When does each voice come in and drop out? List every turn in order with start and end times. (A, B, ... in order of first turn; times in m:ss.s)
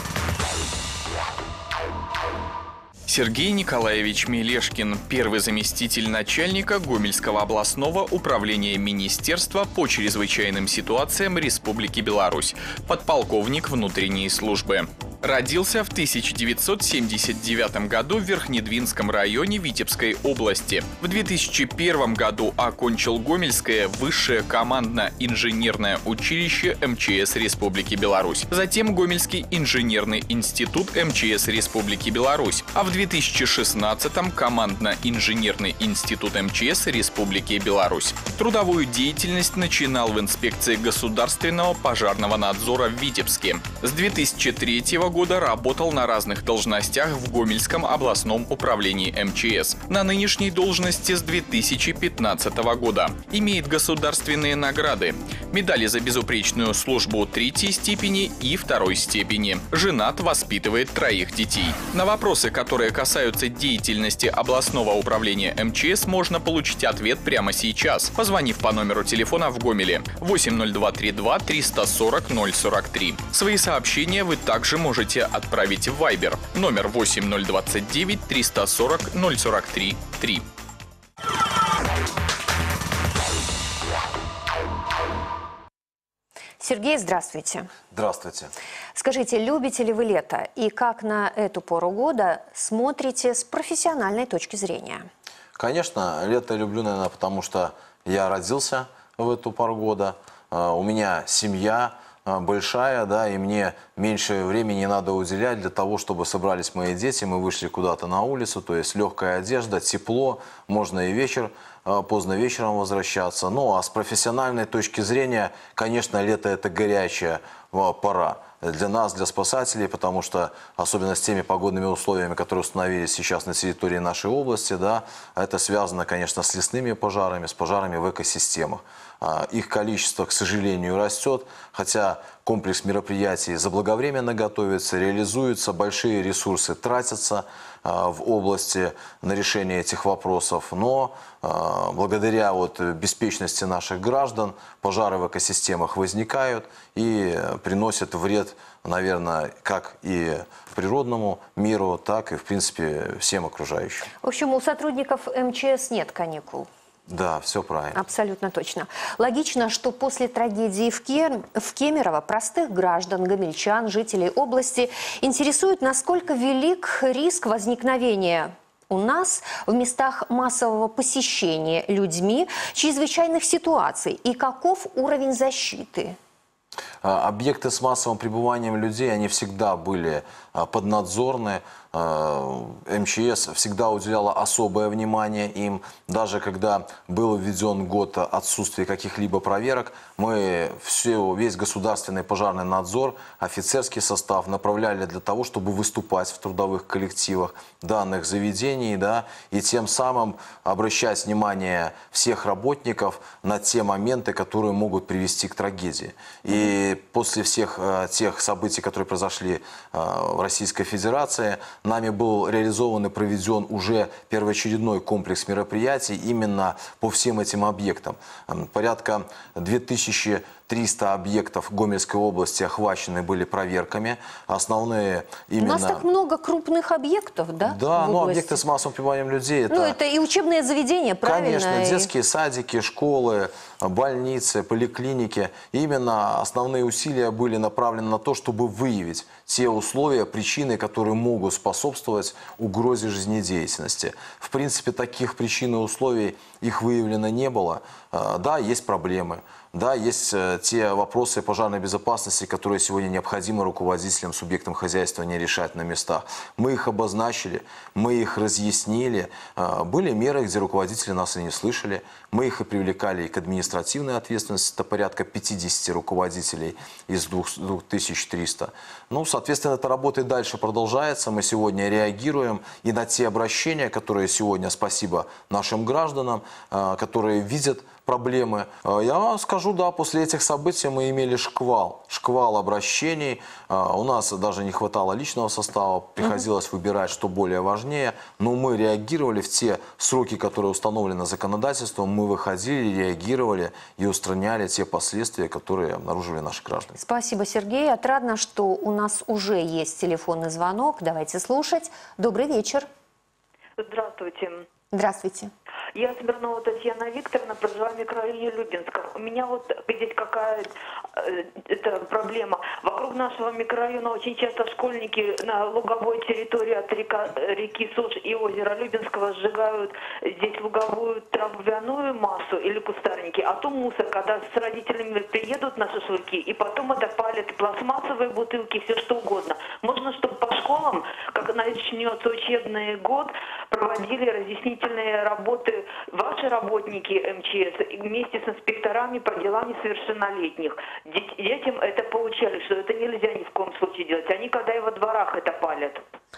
0:03.1-1:20.4 A
1:26.6-1:27.7 B
1:27.9-1:28.5 C
1:29.0-1:35.1 B
1:35.6-2:34.1 C
2:34.2-2:36.7 B
2:37.1-2:38.0 C
2:37.9-2:56.2 B
2:57.0-3:46.0 C
3:45.6-3:48.6 B
3:47.6-3:50.0 C
3:49.7-3:52.1 B
3:51.2-4:57.0 C
4:57.0-5:02.9 B
5:03.8-5:04.7 D
5:04.9-5:05.5 B
5:06.0-5:46.0 D